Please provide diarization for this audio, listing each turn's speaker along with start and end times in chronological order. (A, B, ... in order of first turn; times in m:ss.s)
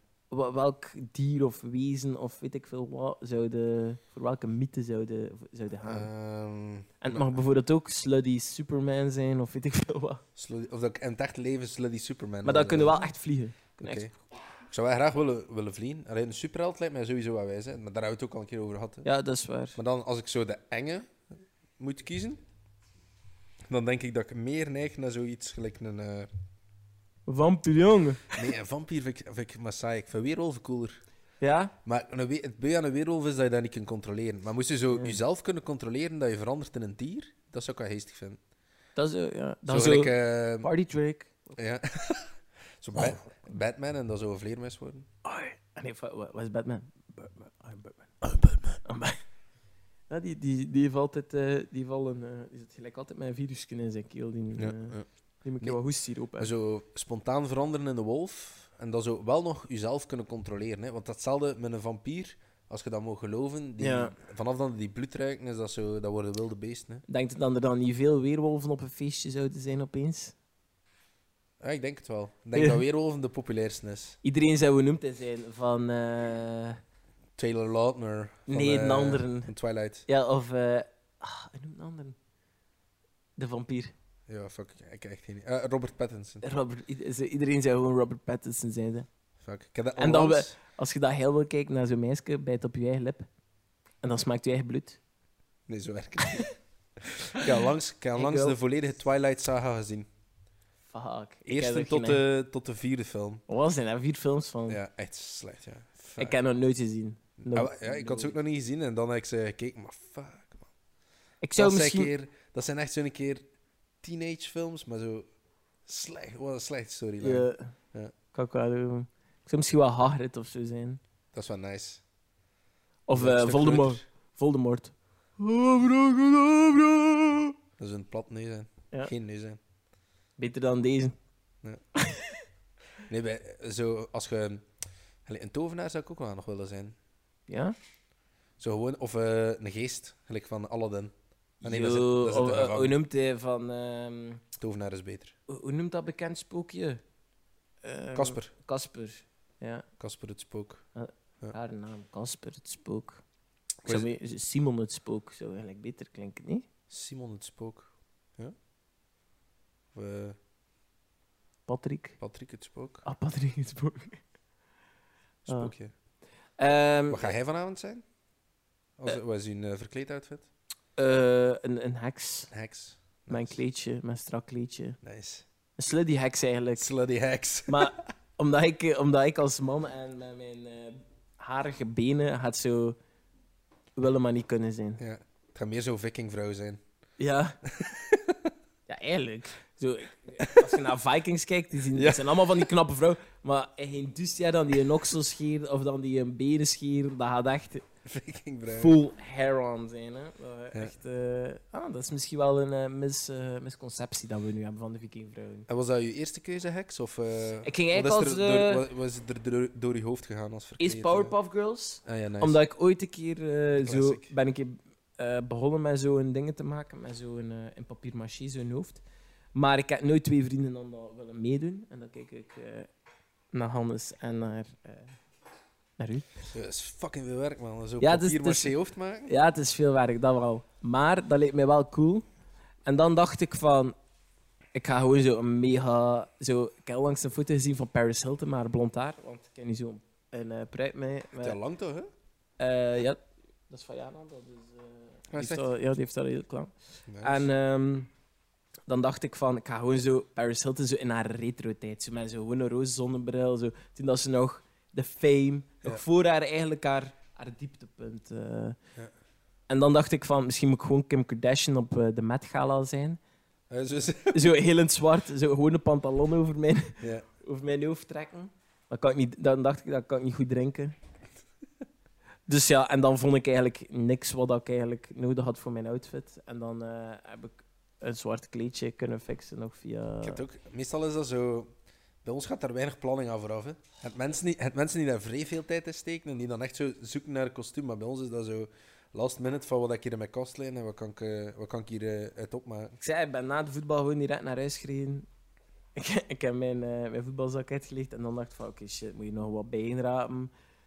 0:00.3-0:06.1 A
0:05.8-0:07.3 B
0:07.0-0:10.2 A
0:10.4-0:13.1 B
0:12.4-0:14.1 A
0:13.8-0:14.1 B
0:14.7-0:19.1 B
0:19.0-0:19.8 A
0:19.7-0:21.2 B
0:21.8-0:22.4 B
0:23.7-0:26.3 B
0:27.3-0:28.4 A
0:28.3-0:31.0 B
0:31.4-0:31.7 A
0:31.8-0:38.4 B
0:34.9-0:35.2 A
0:39.0-0:41.6 A
0:39.7-0:40.7 B
0:41.6-0:45.1 B
0:42.9-0:43.2 A
0:45.2-0:48.2 A
0:48.2-0:48.8 B
0:48.8-0:49.2 A
0:50.1-0:56.5 A
0:54.6-0:55.1 B
0:56.4-1:07.0 B
1:03.8-1:04.2 A
1:07.1-1:10.3 A
1:11.6-1:14.2 B
1:12.5-1:12.8 A
1:14.2-1:16.8 A
1:17.4-1:20.0 B
1:18.5-1:19.5 A
1:20.1-1:22.2 A
1:23.4-1:23.9 A
1:24.3-1:26.4 B
1:26.4-1:29.1 A
1:29.4-1:30.5 B
1:30.0-1:33.2 A
1:34.0-1:35.0 A
1:35.7-1:36.5 B
1:37.2-1:40.1 B
1:38.1-1:38.6 A
1:40.9-1:42.2 A
1:41.4-1:43.4 B
1:43.5-1:44.8 A
1:44.7-1:46.4 B
1:46.2-1:48.4 A
1:47.4-1:50.7 B
1:51.4-1:52.1 A
1:51.6-1:53.4 B
1:54.0-1:55.2 B
1:55.8-1:58.1 B
1:57.2-1:57.7 A
1:58.3-2:01.0 A
2:01.3-2:02.0 B
2:03.1-2:07.5 A
2:03.1-2:04.0 B
2:07.8-2:09.6 B
2:10.4-2:11.1 A
2:12.0-2:12.4 A
2:13.1-2:14.6 B
2:15.2-2:17.0 B
2:17.5-2:17.8 A
2:18.6-2:23.0 B
2:21.6-2:24.4 A
2:24.6-2:25.3 B
2:25.5-2:27.0 A
2:27.8-2:29.8 A
2:28.1-2:28.5 B
2:30.0-2:30.8 B
2:30.9-2:33.2 A
2:33.8-2:34.1 B
2:33.8-2:36.7 A
2:36.9-2:38.5 B
2:39.9-2:40.4 B
2:41.7-2:42.2 A
2:42.2-2:43.0 B
2:43.0-2:44.2 A
2:45.4-2:45.9 B
2:45.5-2:45.7 A
2:46.6-2:47.3 A
2:47.1-2:48.0 B
2:49.0-2:50.5 B
2:51.0-2:52.5 A
2:52.5-2:53.6 B
2:53.3-2:55.0 A
2:55.0-2:55.4 B
2:55.8-2:56.9 A
2:56.8-2:58.0 B
2:57.7-3:03.0 A
3:04.0-3:05.0 A
3:05.0-3:06.8 B
3:07.2-3:07.6 A
3:07.6-3:08.5 B
3:08.9-3:17.8 A
3:10.4-3:10.8 B
3:11.9-3:12.7 B
3:18.0-3:19.0 B
3:18.7-3:25.7 A
3:25.7-3:31.3 B
3:27.6-3:28.8 A
3:30.8-3:39.0 A
3:32.0-3:32.6 B
3:33.8-3:34.3 B
3:39.5-3:42.9 A
3:43.5-3:45.2 A
3:46.0-3:46.3 A
3:46.5-3:49.3 B
3:48.0-3:48.7 A
3:49.2-3:52.2 A
3:52.8-3:53.9 A
3:54.7-4:01.6 A
4:01.4-4:02.1 B
4:02.6-4:08.1 A
4:05.3-4:05.7 B
4:07.1-4:07.5 B
4:08.9-4:18.8 A
4:19.7-4:23.2 A
4:23.7-4:24.5 B
4:24.3-4:30.9 A
4:32.5-4:40.4 A
4:40.2-4:41.7 B
4:42.2-4:53.0 B
4:53.0-4:55.2 A
4:56.0-5:00.5 A